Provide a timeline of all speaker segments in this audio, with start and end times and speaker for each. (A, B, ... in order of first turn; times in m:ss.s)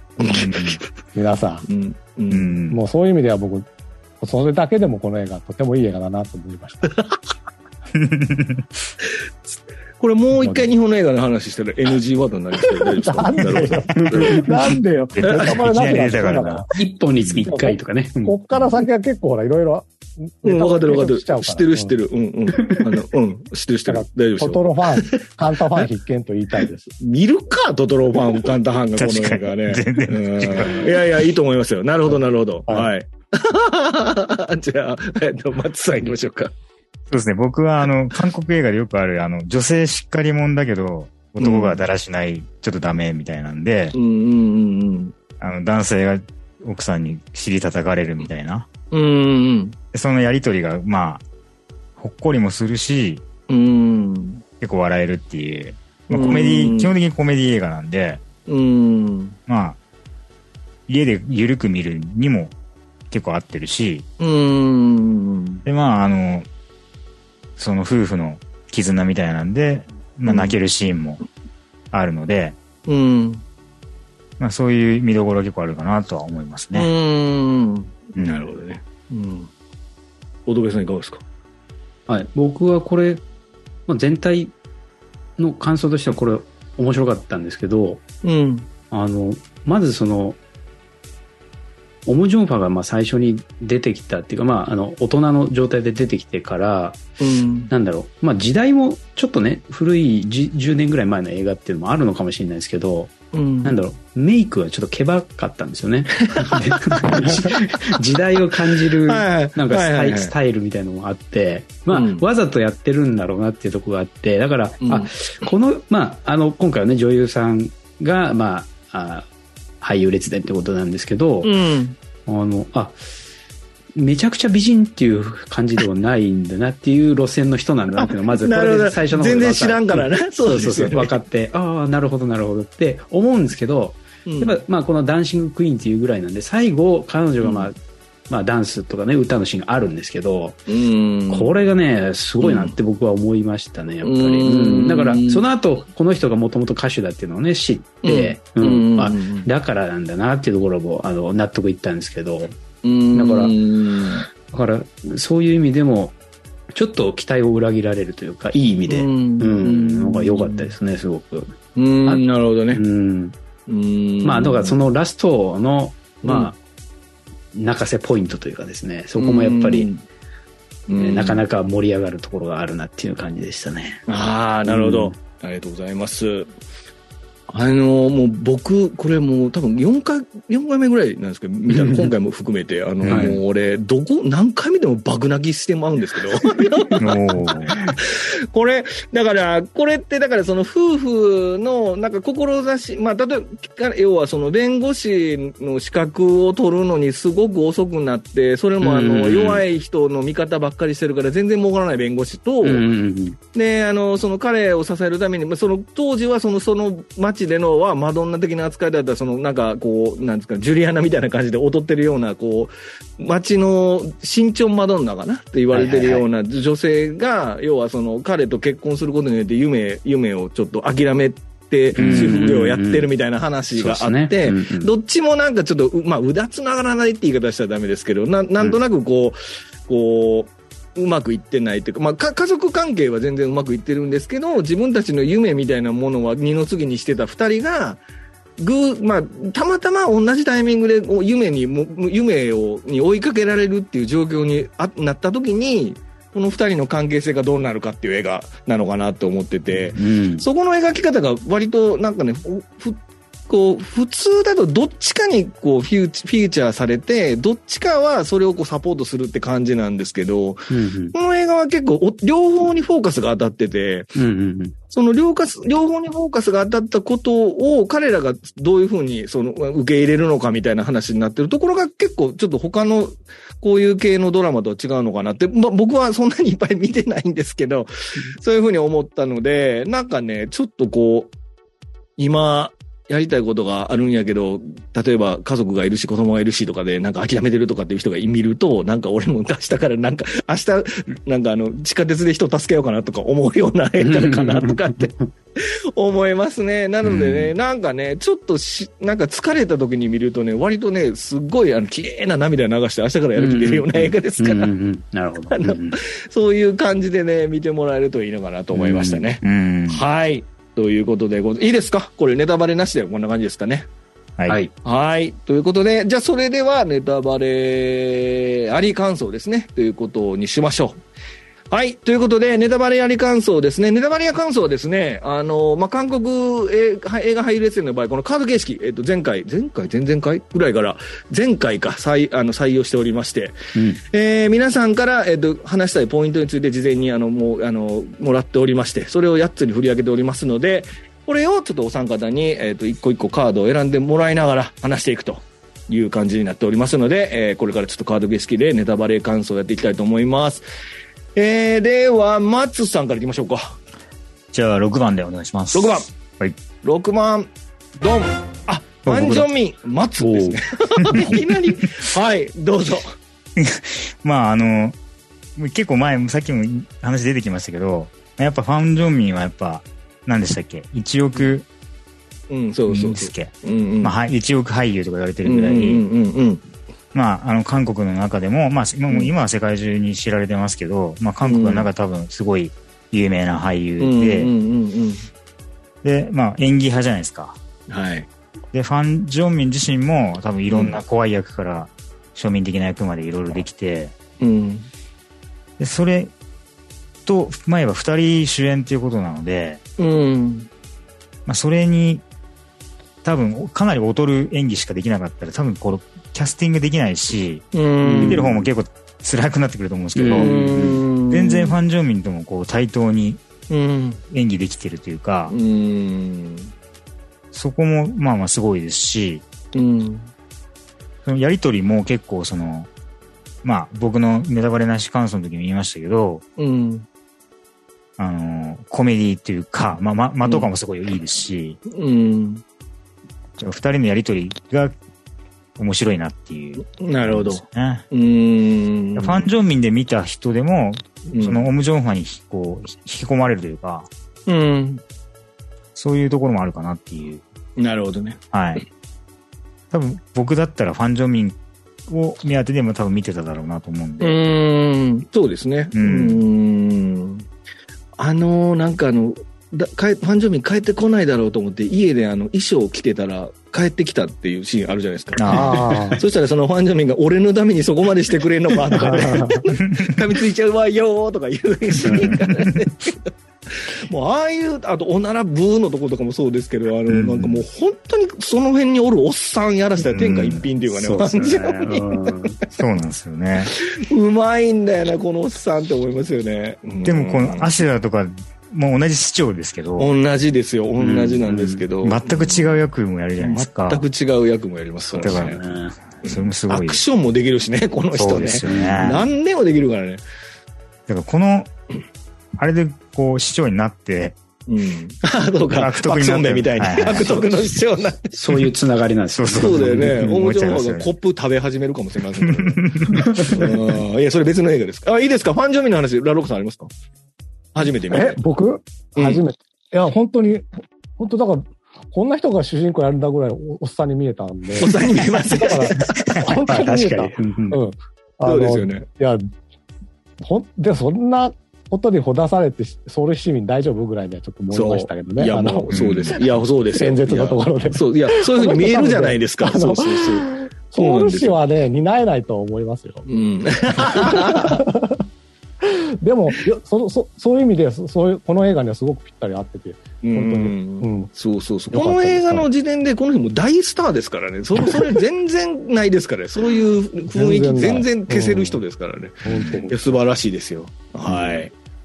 0:00.2-0:00.8 A
0:00.3-0:00.8 B
0:01.2-0:01.7 C
0:01.7-0:02.6 A
0:02.3-0:02.8 B
0:02.7-0:03.7 C
0:04.2-0:07.0 C
0:08.0-0:08.7 B
0:10.0-0:14.5 A
0:10.4-0:10.7 C
0:12.8-0:16.7 C
0:13.9-0:14.3 B
0:15.2-0:16.6 B
0:15.3-0:15.5 A
0:16.8-0:18.4 D
0:17.2-0:17.5 B
0:17.5-0:22.0 C
0:20.4-0:25.2 A
0:23.9-0:26.9 C
0:27.0-0:36.5 A
0:29.0-0:31.0 B
0:37.1-0:44.0 B
0:41.4-0:41.8 A
0:43.9-0:45.1 A
0:45.4-0:48.7 B
0:48.9-0:49.8 A
0:49.9-0:51.2 B
0:52.0-0:53.2 B
0:53.5-0:54.4 A
0:54.6-0:58.2 B
0:56.1-0:57.0 A
0:58.5-0:59.4 A
0:59.5-0:59.8 B
1:00.9-1:02.5 B
1:03.1-1:04.1 B
1:04.2-1:05.6 A
1:05.7-1:06.5 B
1:07.6-1:11.2 B
1:10.3-1:10.6 A
1:11.9-1:12.6 B
1:12.9-1:13.4 A
1:14.4-1:16.9 B
1:16.7-1:19.5 A
1:18.2-1:18.5 B
1:20.5-1:21.2 A
1:22.1-1:23.2 D
1:23.9-1:24.5 D
1:25.4-1:28.0 D
1:28.2-1:28.7 A
1:28.9-1:30.4 D
1:32.1-1:37.0 D
1:37.2-1:37.7 A
1:37.7-1:59.3 D
1:43.3-1:43.8 A
1:46.4-1:47.7 A
1:49.1-1:50.3 A
1:51.9-1:52.2 A
1:54.8-1:55.1 A
1:59.8-2:01.5 D
2:01.4-2:02.0 A
2:02.3-2:03.0 D
2:04.0-2:17.8 D
2:08.0-2:11.1 A
2:14.3-2:14.6 A
2:17.4-2:17.7 A
2:18.3-2:20.6 D
2:20.7-2:21.5 A
2:21.3-2:32.6 D
2:22.4-2:22.8 A
2:24.0-2:25.5 A
2:28.0-2:29.5 A
2:32.8-2:34.3 A
2:33.1-2:33.6 D
2:34.4-2:36.2 D
2:36.7-2:43.4 D
2:38.9-2:40.7 A
2:41.8-2:42.8 A
2:43.7-2:44.8 A
2:44.2-2:46.6 D
2:46.2-2:46.5 A
2:47.5-2:49.9 D
2:49.2-2:50.0 A
2:50.9-2:51.4 A
2:50.9-2:54.0 D
2:54.1-2:56.5 A
2:54.7-2:55.2 D
2:57.5-3:22.8 A
3:01.7-3:02.1 D
3:03.0-3:03.4 B
3:03.0-3:03.4 D
3:07.0-3:07.8 B
3:07.7-3:07.9 D
3:18.8-3:19.6 D
3:22.6-3:23.4 D
3:23.5-3:58.0 A
3:35.7-3:36.2 D
3:42.0-3:43.1 D
3:42.0-3:42.3 B
3:43.8-3:44.9 D
3:58.6-4:24.1 A
4:09.7-4:10.5 D
4:20.7-4:21.2 D
4:24.2-4:24.8 D
4:24.9-4:41.3 A
4:42.2-5:04.7 A
4:54.0-4:55.2 D
4:57.1-4:57.4 D
5:03.4-5:06.0 D
5:05.5-5:13.9 A
5:08.7-5:09.3 D
5:09.4-5:10.0 B
5:14.8-5:21.0 A
5:21.7-5:33.6 A
5:33.8-5:34.0 D
5:34.1-5:50.6 A
5:51.4-5:53.8 A
5:54.5-5:56.6 B
5:55.7-5:56.1 A
5:56.8-6:03.2 A
5:59.0-5:59.5 B
6:00.2-6:00.6 D
6:01.0-6:01.4 B
6:03.6-6:05.0 B
6:05.6-6:11.7 B
6:12.5-6:14.2 A
6:12.9-6:16.0 B
6:15.4-6:16.7 A
6:17.1-6:24.5 B
6:21.4-6:21.9 A
6:24.0-6:25.2 A
6:26.0-6:27.6 B
6:27.9-6:28.3 A
6:28.7-6:34.1 B
6:30.7-6:31.0 A
6:34.4-6:34.9 A
6:35.8-6:36.3 B
6:37.3-6:39.8 B
6:40.0-6:40.7 A
6:41.5-6:42.2 B
6:43.2-6:47.7 B
6:47.7-6:48.5 A
6:48.0-6:48.7 D
6:48.2-6:50.8 B
6:50.2-6:51.0 D
6:50.3-6:51.8 A
6:51.3-6:53.4 B
6:53.7-6:54.2 A
6:54.3-6:55.6 B
6:55.5-6:56.7 A
6:57.5-6:59.4 B
6:59.7-7:00.3 A
7:01.2-7:02.9 B
7:03.6-7:06.4 B
7:06.6-7:07.1 A
7:08.2-7:11.8 B
7:11.9-7:12.6 A
7:13.6-7:15.0 B
7:15.8-7:18.0 B
7:16.8-7:19.5 A
7:19.2-7:24.1 B
7:21.3-7:21.6 A
7:24.5-7:25.0 A
7:26.0-7:27.4 B
7:27.8-7:28.4 A
7:28.5-7:28.8 B
7:29.9-7:31.6 B
7:32.1-7:34.4 B
7:34.2-7:37.4 A
7:35.9-7:36.4 B
7:38.2-8:02.4 A
7:45.4-7:46.2 B
7:45.5-7:46.2 C
7:49.0-7:49.7 C
7:49.7-7:50.1 B
7:52.1-7:52.7 B
7:57.1-7:57.6 B
8:00.1-8:00.6 B
8:00.9-8:02.6 D
8:02.7-8:03.7 B
8:03.7-8:07.7 A
8:07.0-8:10.1 B
8:10.0-8:12.8 A
8:11.0-8:11.8 D
8:12.0-8:14.0 B
8:13.4-8:15.6 A
8:15.1-8:16.0 D
8:15.2-8:15.6 B
8:16.2-8:17.0 B
8:16.2-8:20.2 A
8:18.2-8:19.3 B
8:18.6-8:19.2 D
8:21.1-8:21.7 B
8:22.6-8:24.4 B
8:24.7-8:28.3 A
8:25.7-8:27.8 B
8:28.3-8:30.3 D
8:29.4-8:31.1 B
8:29.5-8:36.9 A
8:32.4-8:33.7 B
8:37.8-8:38.4 A
8:38.1-8:40.7 C
8:41.2-8:49.4 C
8:44.8-8:46.5 A
8:46.4-8:47.8 D
8:48.4-8:49.1 A
8:50.4-8:55.9 C
8:54.7-9:01.5 A
8:55.9-8:56.4 B
8:57.0-9:03.3 C
9:03.3-9:04.8 A
9:04.0-9:05.2 C
9:05.8-9:11.3 C
9:10.2-9:21.7 A
9:11.9-9:12.7 C
9:17.3-9:18.8 C
9:19.4-9:20.0 C
9:21.3-9:21.6 D